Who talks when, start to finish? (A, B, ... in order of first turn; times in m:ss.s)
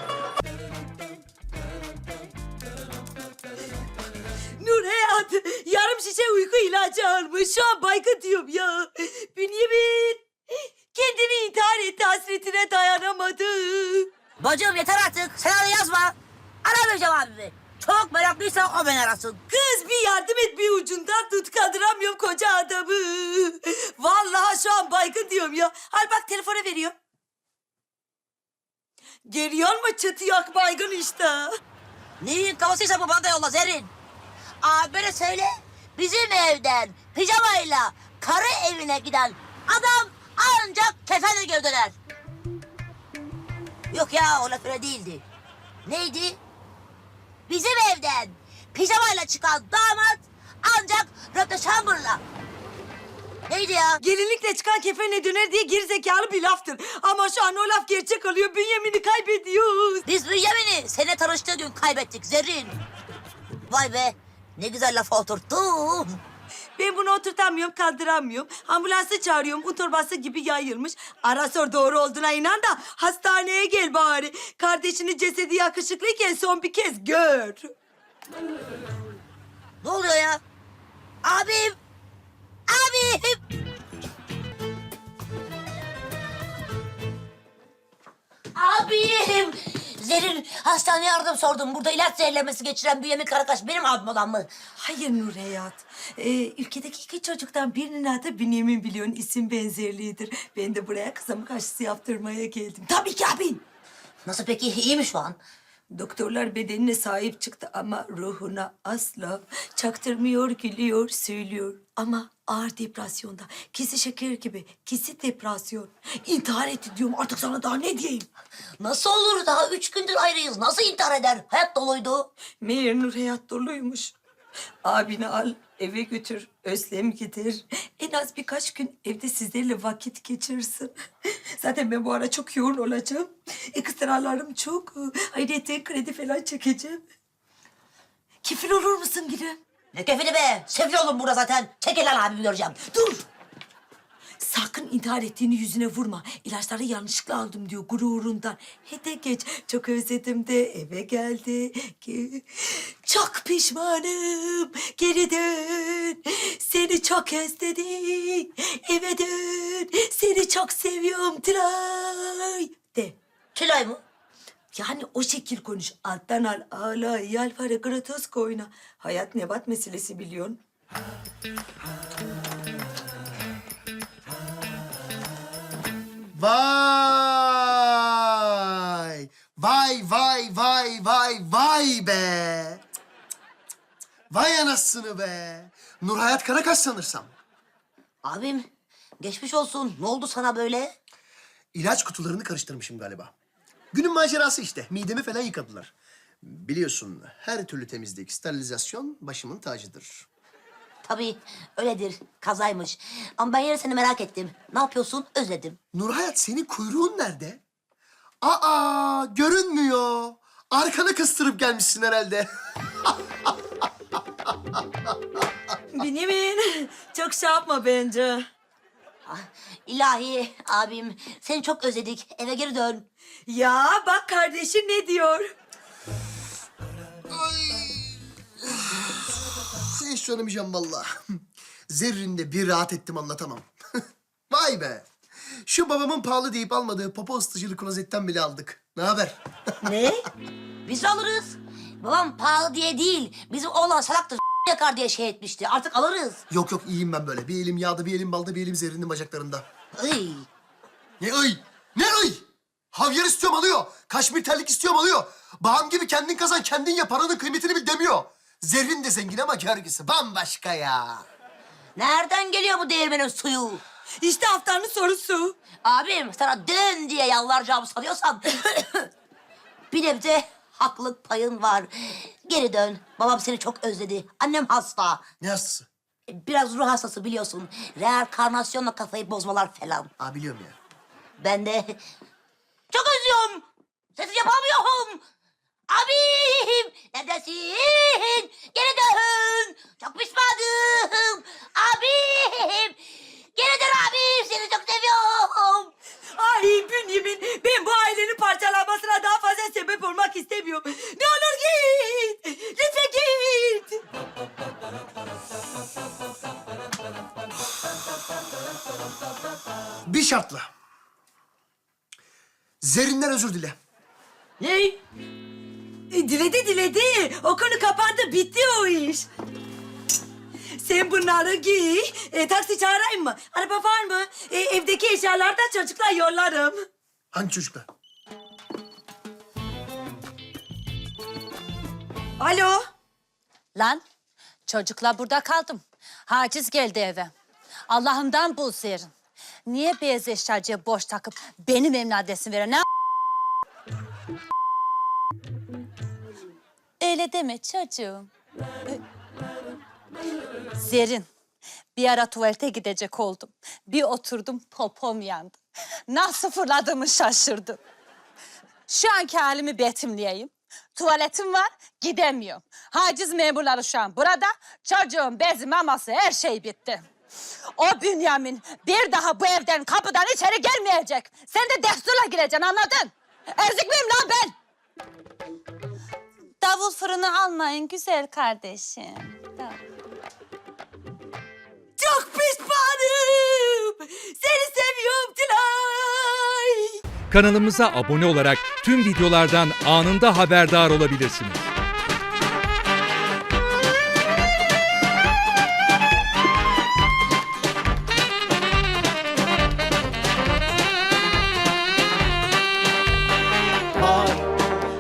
0:04.6-0:10.2 A
0:10.9-0:14.1 A
0:14.4-0:19.4 B
0:19.5-0:26.9 A
0:29.2-0:31.5 A
0:32.2-0:33.9 B
0:34.6-0:42.0 B
0:43.9-0:45.2 B
0:45.9-0:46.4 B
0:47.5-0:52.2 B
0:53.5-0:54.0 B
0:54.0-1:00.1 A
1:00.1-1:02.8 B
1:03.7-1:06.2 B
1:06.8-1:17.7 A
1:19.8-1:20.4 B
1:21.2-1:21.8 B
1:22.7-1:23.4 B
1:28.6-1:34.5 B
1:34.8-1:43.6 A
1:44.2-1:45.4 B
1:45.9-1:58.3 A
1:58.8-2:02.3 B
2:02.6-2:04.1 A
2:04.8-2:10.9 A
2:11.6-2:17.0 A
2:18.4-2:19.6 A
2:19.9-2:22.8 B
2:22.9-2:23.2 A
2:24.4-2:43.2 A
2:43.5-2:44.0 B
2:44.7-2:50.6 A
2:56.3-3:02.8 C
3:04.3-3:07.3 C
3:08.2-3:08.7 B
3:09.2-3:10.9 B
3:11.8-3:13.3 C
3:13.9-3:20.3 C
3:21.0-3:25.8 B
3:25.9-3:27.6 C
3:28.4-3:32.5 C
3:33.0-3:33.5 C
3:35.9-3:38.4 A
3:39.3-3:43.0 B
3:43.4-3:45.5 A
3:47.3-3:51.2 C
3:51.9-3:53.7 C
3:54.5-3:55.1 C
3:55.6-3:59.9 C
3:59.8-4:00.2 B
4:00.9-4:06.4 B
4:06.5-4:09.6 C
4:10.0-4:10.5 B
4:11.2-4:21.2 C
4:22.0-4:23.8 B
4:24.2-4:25.6 A
4:25.8-4:29.1 B
4:29.9-4:35.2 B
4:35.4-4:35.9 C
4:36.3-4:40.1 B
4:40.2-4:40.8 C
4:41.4-4:42.0 B
4:42.9-4:43.6 B
4:44.2-4:45.2 B
4:45.9-4:55.9 B
4:56.4-5:04.0 A
5:10.1-5:10.7 C
5:12.8-5:13.8 C
5:14.6-5:15.0 B
5:16.1-5:19.3 A
5:20.8-5:26.8 A
5:27.3-5:27.9 C
5:32.4-5:32.8 A
5:33.8-5:34.0 D
5:34.7-5:37.3 D
5:37.9-5:39.1 D
5:39.6-5:42.8 D
5:47.0-5:48.3 D
5:50.8-5:51.3 D
5:52.0-5:57.8 D
5:58.9-6:07.0 D
6:07.8-6:14.6 D
6:16.6-6:19.8 D
6:22.0-6:27.0 A
6:27.3-6:31.7 E